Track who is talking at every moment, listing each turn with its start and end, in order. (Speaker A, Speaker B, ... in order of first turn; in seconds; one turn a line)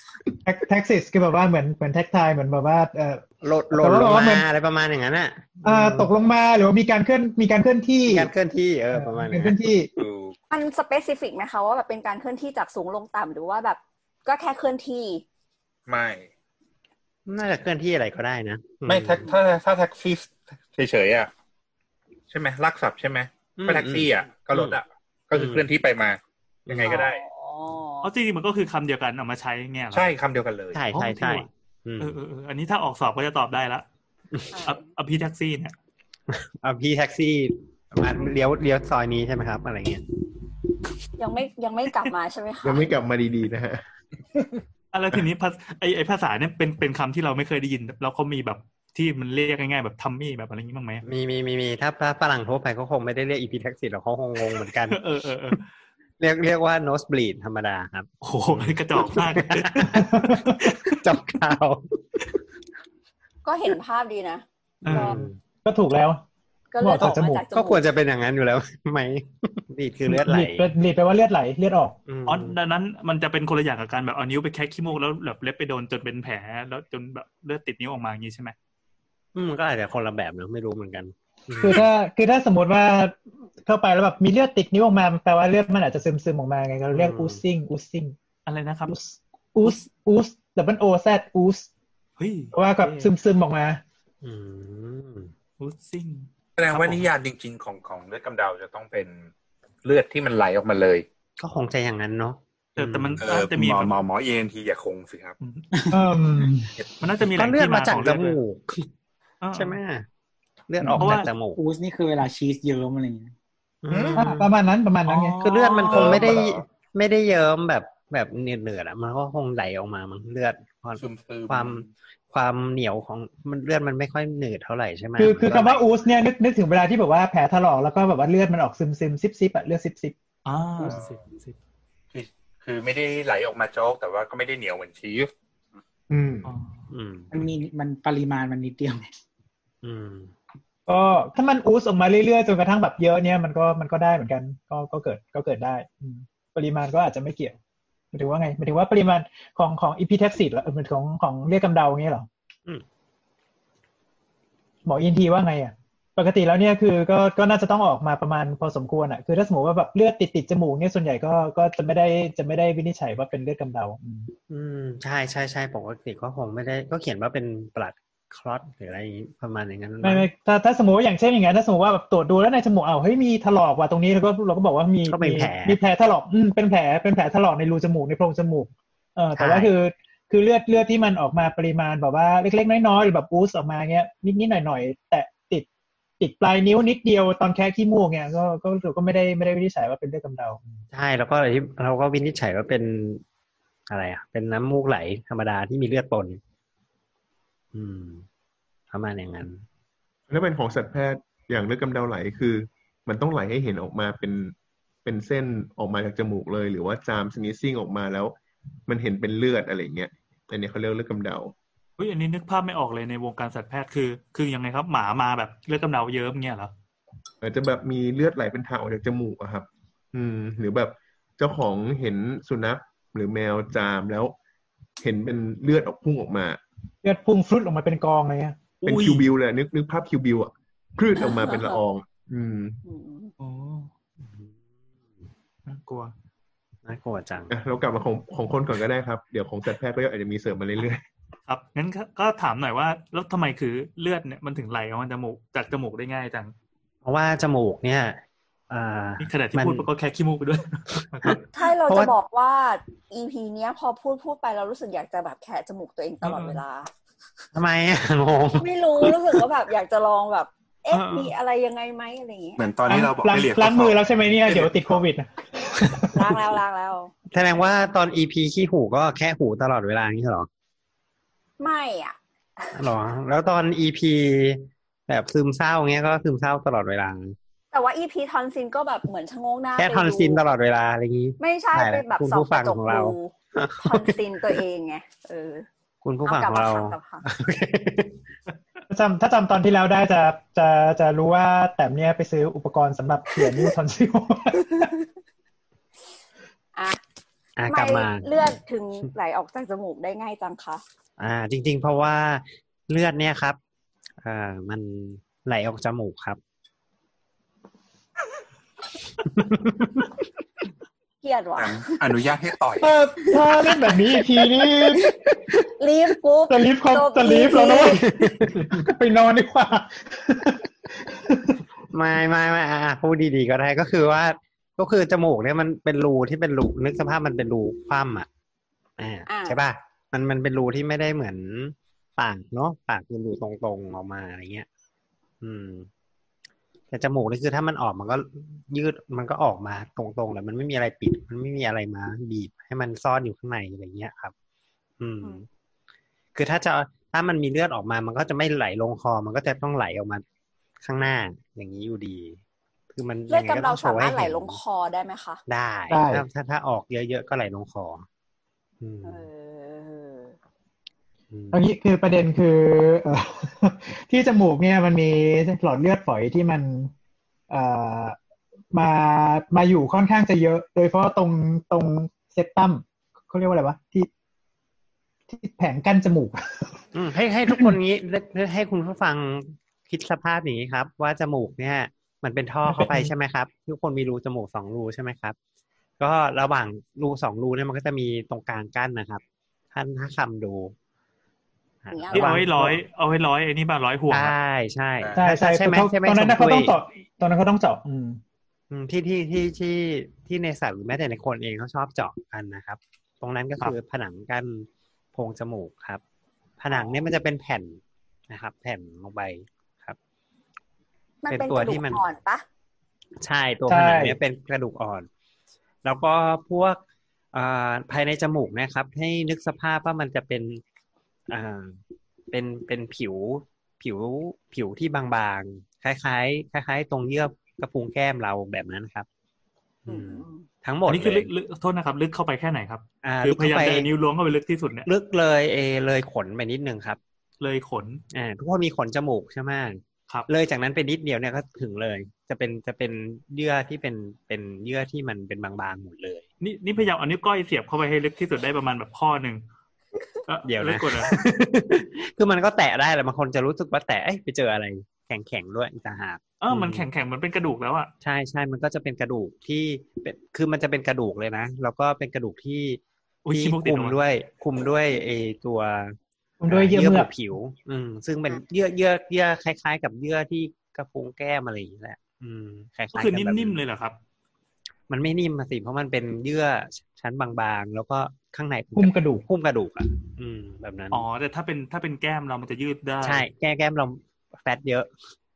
Speaker A: 0.4-4.4
Speaker B: 3.4-6.1
Speaker A: 5.6-8.3
Speaker B: 8.1-9.6
Speaker A: 8.9-9.9
Speaker C: 10.0-10.3
Speaker D: 10.5-15.2
Speaker C: 15.9-16.3
Speaker B: 17.3-19.2
Speaker C: 18.8-21.3
Speaker C: 22.3-27.2
Speaker B: 23.6-24.8
Speaker B: 25.3-25.6
Speaker B: 26.7-27.1
Speaker D: 26.8-28.1
Speaker E: 28.0-30.1
Speaker C: 29.9-30.8
Speaker B: 30.7-32.1
Speaker E: 30.9-31.5
Speaker E: 32.0-33.8
Speaker B: 34.3-34.6
Speaker D: 34.5-34.8
Speaker E: 34.6-35.7
Speaker B: 36.3-40.0
Speaker D: 41.2-42.9
Speaker F: 42.6-43.8
Speaker E: 44.9-51.0
Speaker B: 51.0-55.0
Speaker E: 54.9-55.7
Speaker B: 56.2-62.2
Speaker E: 58.2-61.0
Speaker A: 59.9-60.5
Speaker D: 63.4-65.3
Speaker E: 64.8-65.2
Speaker B: 64.8-65.3
Speaker A: 65.6-66.2
Speaker D: 66.7-67.8
Speaker A: 66.8-67.4
Speaker B: 67.5-70.7
Speaker A: 70.1-72.0
Speaker B: 72.0-72.6
Speaker E: 72.3-78.5
Speaker B: 79.3-81.9
Speaker A: 81.6-83.1
Speaker A: 83.6-88.1
Speaker B: 86.9-87.4
Speaker E: 88.5-88.9
Speaker A: 88.9-91.7
Speaker E: 92.2-93.1
Speaker A: 92.5-93.8
Speaker B: 94.2-95.3
Speaker E: 95.6-97.1
Speaker C: 96.6-99.3
Speaker C: 99.8-101.0
Speaker B: 101.4-103.2
Speaker E: 102.8-104.0
Speaker C: 103.2-105.3
Speaker E: 105.4-105.7
Speaker A: 105.9-106.7
Speaker E: 107.0-108.4
Speaker B: 107.2-108.9
Speaker E: 109.4-109.8
Speaker B: 109.5-110.0
Speaker B: 110.7-111.6
Speaker A: 110.8-111.1
Speaker E: 111.0-111.3
Speaker G: 111.5-113.3
Speaker B: 113.8-114.5
Speaker A: 114.2-115.4
Speaker E: 115.0-116.3
Speaker B: 115.4-125.8
Speaker C: 115.9-116.5
Speaker C: 121.0-121.9
Speaker A: 125.2-130.1
Speaker E: 130.4-131.6
Speaker C: 130.8-131.2
Speaker C: 132.1-135.3
Speaker F: 136.1-136.5
Speaker E: 136.4-136.8
Speaker B: 136.9-137.3
Speaker G: 137.3-139.0
Speaker B: 139.8-140.3
Speaker A: 140.9-147.6
Speaker A: 148.1-152.3
Speaker A: 154.8-164.3
Speaker B: 164.5-170.3
Speaker A: 170.0-185.7
Speaker B: 175.1-175.8
Speaker B: 179.3-179.7
Speaker A: 186.2-190.6
Speaker B: 190.9-193.2
Speaker B: 193.9-196.4
Speaker B: 197.7-198.2
Speaker B: 198.9-199.6
Speaker F: 200.3-208.3
Speaker F: 208.9-211.5
Speaker E: 212.0-216.7
Speaker F: 217.4-224.3
Speaker F: 225.0-226.6
Speaker A: 227.0-228.6
Speaker F: 228.8-232.8
Speaker E: 228.8-229.2
Speaker D: 231.2-231.8
Speaker D: 232.8-233.3
Speaker E: 233.4-233.9
Speaker E: 235.7-236.1
Speaker B: 236.8-237.5
Speaker F: 237.5-241.0
Speaker E: 241.5-246.5
Speaker B: 247.0-249.8
Speaker E: 249.2-251.4
Speaker B: 251.2-252.1
Speaker D: 251.5-256.9
Speaker E: 256.2-256.6
Speaker B: 257.5-259.4
Speaker D: 258.5-262.6
Speaker E: 260.9-261.3
Speaker C: 262.6-265.0
Speaker A: 262.9-266.1
Speaker D: 266.1-267.1
Speaker B: 267.3-270.5
Speaker D: 271.6-272.8
Speaker B: 272.8-277.3
Speaker D: 277.7-280.4
Speaker B: 279.8-284.5
Speaker D: 281.4-285.7
Speaker B: 286.0-288.2
Speaker D: 286.2-287.2
Speaker A: 288.9-294.9
Speaker D: 296.7-297.0
Speaker B: 297.6-298.6
Speaker D: 297.7-300.8
Speaker B: 301.2-303.6
Speaker B: 304.2-306.4
Speaker B: 309.3-310.2
Speaker D: 311.2-312.0
Speaker C: 311.6-312.9
Speaker A: 312.8-315.1
Speaker D: 313.3-313.9
Speaker D: 315.8-318.1
Speaker A: 316.5-321.5
Speaker B: 318.0-318.8
Speaker B: 321.9-328.3
Speaker B: 329.0-334.6
Speaker D: 329.2-329.6
Speaker B: 335.4-335.9
Speaker B: 336.9-344.3
Speaker B: 345.0-345.4
Speaker B: 346.3-350.2
Speaker B: 350.8-352.4
Speaker B: 352.9-354.6
Speaker D: 353.3-355.4
Speaker B: 355.5-358.1
Speaker A: 355.9-356.2
Speaker B: 358.8-359.3
Speaker D: 359.0-360.3
Speaker B: 361.3-361.6
Speaker A: 361.5-366.9
Speaker A: 367.5-368.1
Speaker A: 368.7-374.1
Speaker A: 375.3-376.8
Speaker B: 376.9-385.4
Speaker A: 382.7-383.1
Speaker B: 386.0-389.2
Speaker B: 389.7-390.7
Speaker B: 391.8-392.8
Speaker D: 391.9-392.4
Speaker E: 392.1-394.3
Speaker B: 394.1-396.7
Speaker A: 395.1-398.2
Speaker B: 398.7-406.0
Speaker B: 406.6-407.8
Speaker B: 408.3-410.0
Speaker D: 411.2-412.4
Speaker B: 411.3-412.0
Speaker B: 413.2-415.1
Speaker A: 413.7-414.2
Speaker B: 415.8-416.8
Speaker B: 417.3-420.6
Speaker B: 421.3-421.8
Speaker B: 422.3-429.1
Speaker B: 429.9-431.3
Speaker D: 429.9-430.4
Speaker E: 430.9-434.9
Speaker B: 433.0-433.9
Speaker B: 434.9-437.0
Speaker E: 437.4-438.0
Speaker B: 438.1-446.2
Speaker E: 446.4-449.4
Speaker E: 450.3-451.1
Speaker B: 450.4-456.9
Speaker E: 456.4-457.9
Speaker B: 458.0-462.8
Speaker E: 463.2-464.0
Speaker B: 463.3-466.0
Speaker A: 466.4-467.1
Speaker B: 466.5-473.6
Speaker E: 472.9-474.0
Speaker B: 474.9-481.1
Speaker A: 478.8-479.2
Speaker E: 480.9-483.3
Speaker B: 483.0-484.9